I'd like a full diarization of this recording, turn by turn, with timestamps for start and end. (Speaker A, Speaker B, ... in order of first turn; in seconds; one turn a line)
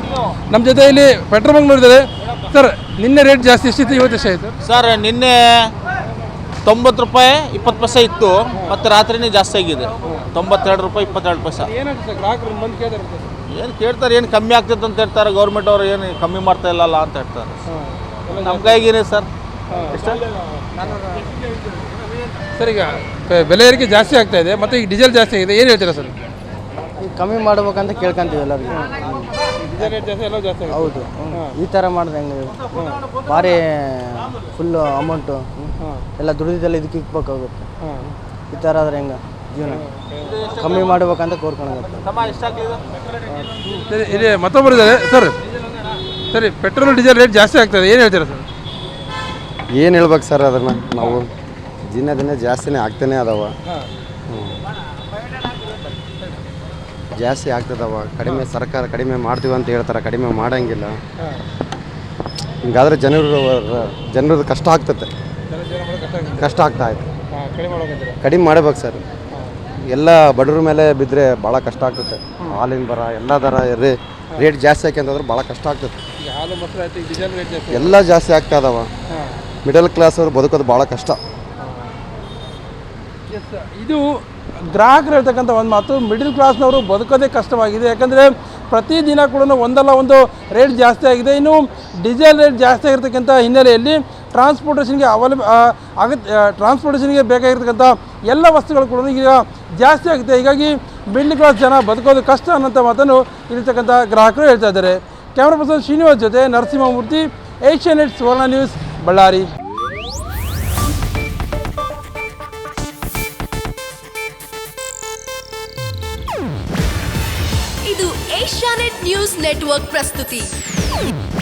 Speaker A: 0.5-4.5
Speaker B: 4.6-5.7
Speaker B: 6.7-11.7
Speaker A: 11.7-13.3
Speaker B: 13.5-17.6
Speaker A: 17.7-18.8
Speaker B: 18.4-19.3
Speaker A: 19.7-20.0
Speaker B: 19.9-20.2
Speaker C: 20.8-21.3
Speaker A: 22.6-26.1
Speaker C: 27.0-29.9
Speaker A: 29.6-31.5
Speaker C: 30.7-32.6
Speaker C: 33.1-35.7
Speaker C: 36.2-37.7
Speaker A: 37.8-38.2
Speaker C: 38.5-39.8
Speaker A: 39.7-40.2
Speaker B: 40.2-41.0
Speaker C: 40.5-42.3
Speaker B: 42.0-43.0
Speaker A: 43.9-45.4
Speaker A: 46.3-48.5
Speaker D: 49.7-51.3
Speaker D: 51.8-53.5
Speaker D: 54.3-54.5
Speaker D: 57.2-61.0
Speaker D: 62.6-65.1
Speaker A: 65.5-66.5
Speaker D: 66.4-67.1
Speaker A: 67.3-68.2
Speaker D: 68.2-69.0
Speaker D: 69.9-76.0
Speaker A: 76.2-78.0
Speaker D: 77.7-78.9
Speaker D: 79.6-81.2
Speaker A: 83.3-109.5
Speaker E: 117.8-120.5